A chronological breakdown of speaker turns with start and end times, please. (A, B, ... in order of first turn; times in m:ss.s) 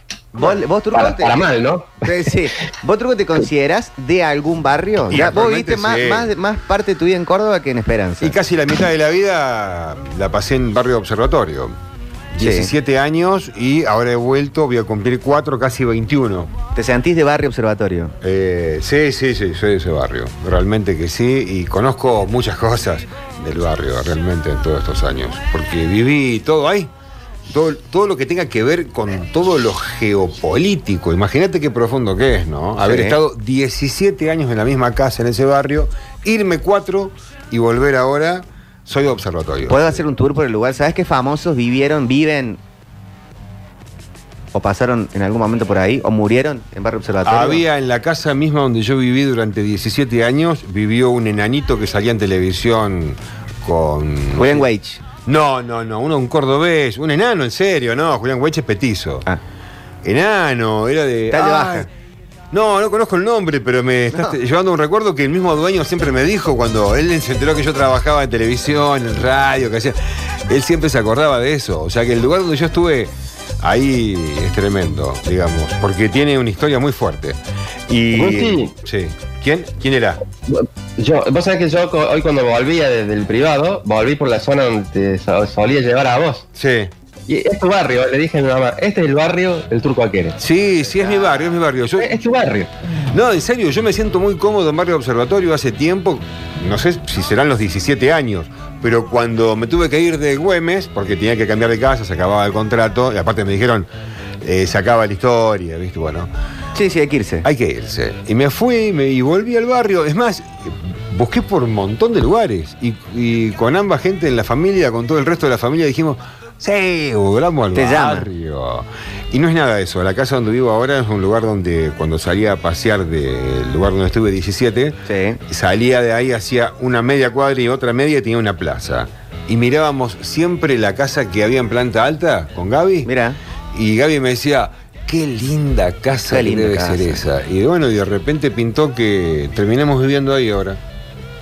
0:00.4-0:01.5 A
0:00.9-0:02.1 B
0:02.0-0:08.4 A
0:05.1-0:06.3 C
0:08.2-0:11.8 C
0:12.3-0:16.5 C
0:12.4-0:12.7 A
0:16.8-0:18.2 A
0:18.2-0:26.9 C
0:27.5-0:40.0 C
0:32.8-0:33.2 A
0:39.7-0:42.6 A
0:44.5-0:47.6 A
0:47.2-0:54.6 C
0:54.4-0:55.0 A
0:55.2-0:59.3 C
1:00.0-1:01.9 C
1:01.3-1:01.9 A
1:02.5-1:10.0 C
1:10.5-1:17.4 C
1:17.9-1:20.2 C
1:18.1-1:18.7 B
1:20.5-1:26.5 B
1:26.6-1:26.9 C
1:27.3-1:30.4 B
1:30.4-1:32.1 C
1:32.0-1:32.7 B
1:33.1-1:43.9 C
1:44.4-1:46.3 C
1:46.8-1:47.5 A
1:47.4-2:05.0 C
1:57.8-1:58.3 A
2:05.1-2:05.4 A
2:05.5-2:13.1 C
2:13.1-2:13.4 A
2:13.7-2:20.8 C
2:16.3-2:17.2 A